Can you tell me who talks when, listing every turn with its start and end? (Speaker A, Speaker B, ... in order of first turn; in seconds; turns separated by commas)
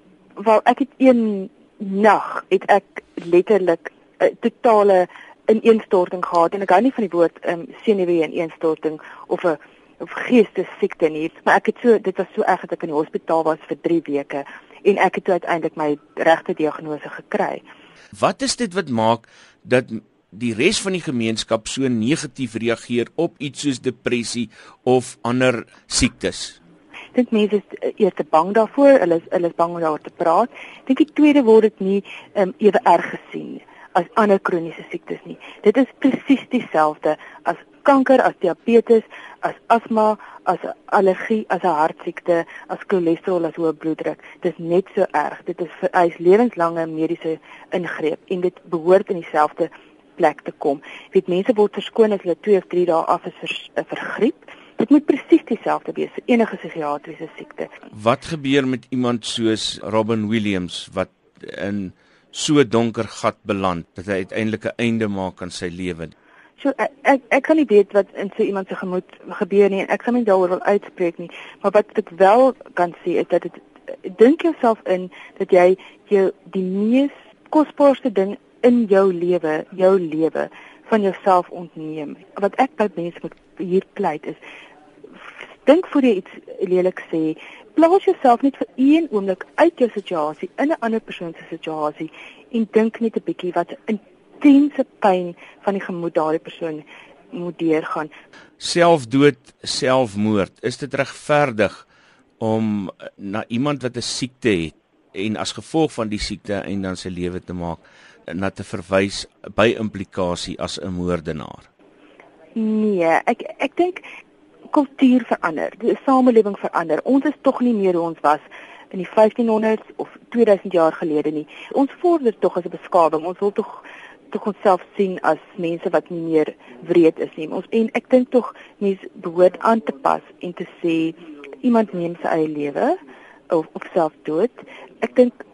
Speaker A: 0.4-17.6, Speaker B: 18.1-26.6, Speaker A: 27.1-57.7, Speaker B: 57.9-66.1, Speaker A: 66.6-84.4, Speaker A: 85.6-98.1, Speaker B: 98.6-101.8, Speaker B: 102.4-111.7, Speaker A: 112.5-114.0, Speaker A: 114.7-132.9, Speaker A: 133.5-135.3